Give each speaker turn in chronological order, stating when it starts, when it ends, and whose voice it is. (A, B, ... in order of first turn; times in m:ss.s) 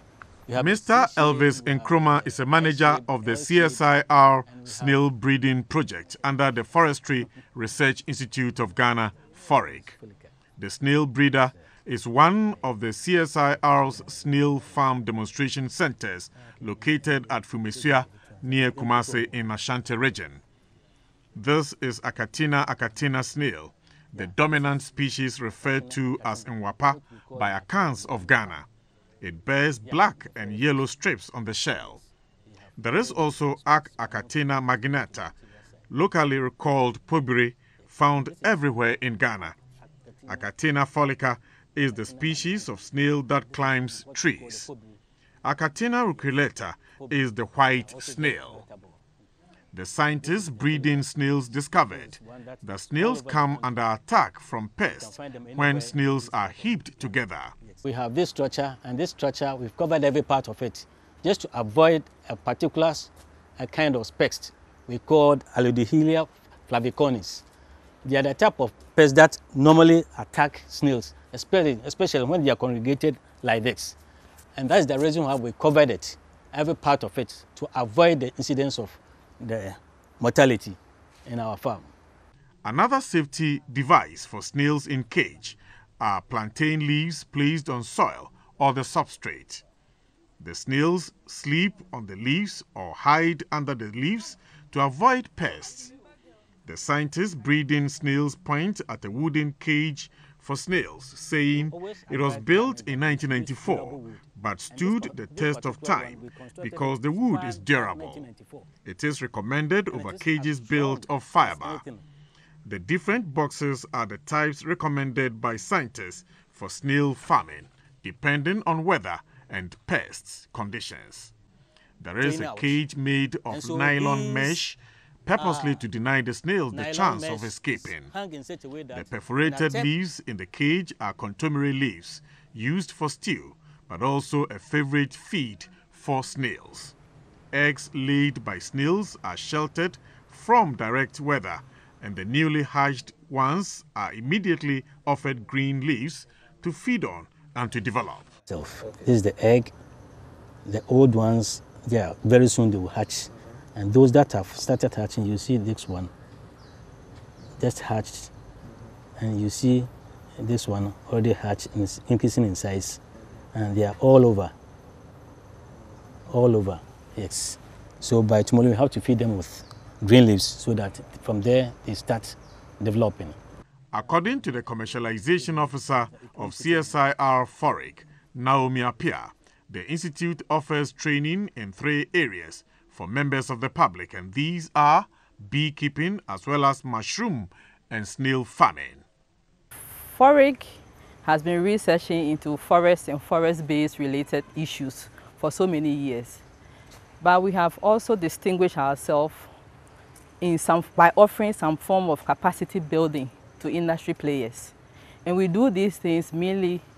0:00.5-0:03.9 A
0:00.5-0:10.0 B
0:04.5-0:05.1 A
0:09.5-0:10.3 A
0:10.6-0:20.4 B
0:12.5-0:12.8 A
0:13.6-0:15.0 A
0:16.6-0:19.5 A
0:21.4-0:28.6 B
0:24.1-0:24.8 A
0:25.6-0:28.6 A
0:29.2-0:32.0 B
0:29.8-0:30.9 A
0:32.0-0:35.5 A
0:32.8-0:35.3 B
0:35.9-0:39.6 B
0:37.8-0:38.7 A
0:39.9-0:40.5 A
0:40.3-0:44.7 B
0:41.8-0:45.0 A
0:45.4-0:48.6 B
0:46.2-0:46.4 A
0:47.0-0:49.0 A
0:49.7-0:57.5 B
0:50.2-0:51.1 A
0:51.8-0:53.8 A
0:54.9-1:07.4 A
1:08.0-1:14.0 A
1:14.6-1:21.9 A
1:22.6-1:29.6 B
1:30.4-1:35.9 B
1:36.7-1:48.3 B
1:41.5-1:48.7 A
1:48.8-1:51.8 B
1:49.9-1:52.0 A
1:52.6-2:01.3 B
2:02.0-2:08.1 B
2:02.2-2:02.8 A
2:03.5-2:04.6 A
2:05.4-2:05.8 A
2:06.7-2:09.9 A
2:08.9-2:16.9 B
2:17.5-2:28.3 B
2:28.5-2:29.7 A
2:30.7-2:36.1 A
2:37.6-2:38.3 A
2:39.2-2:43.0 A
2:43.5-2:44.5 A
2:46.3-2:53.4 A
2:53.9-3:09.0 B
2:54.1-2:57.0 A
3:09.9-3:16.4 C
3:17.2-3:19.5 C
3:20.4-3:26.8 C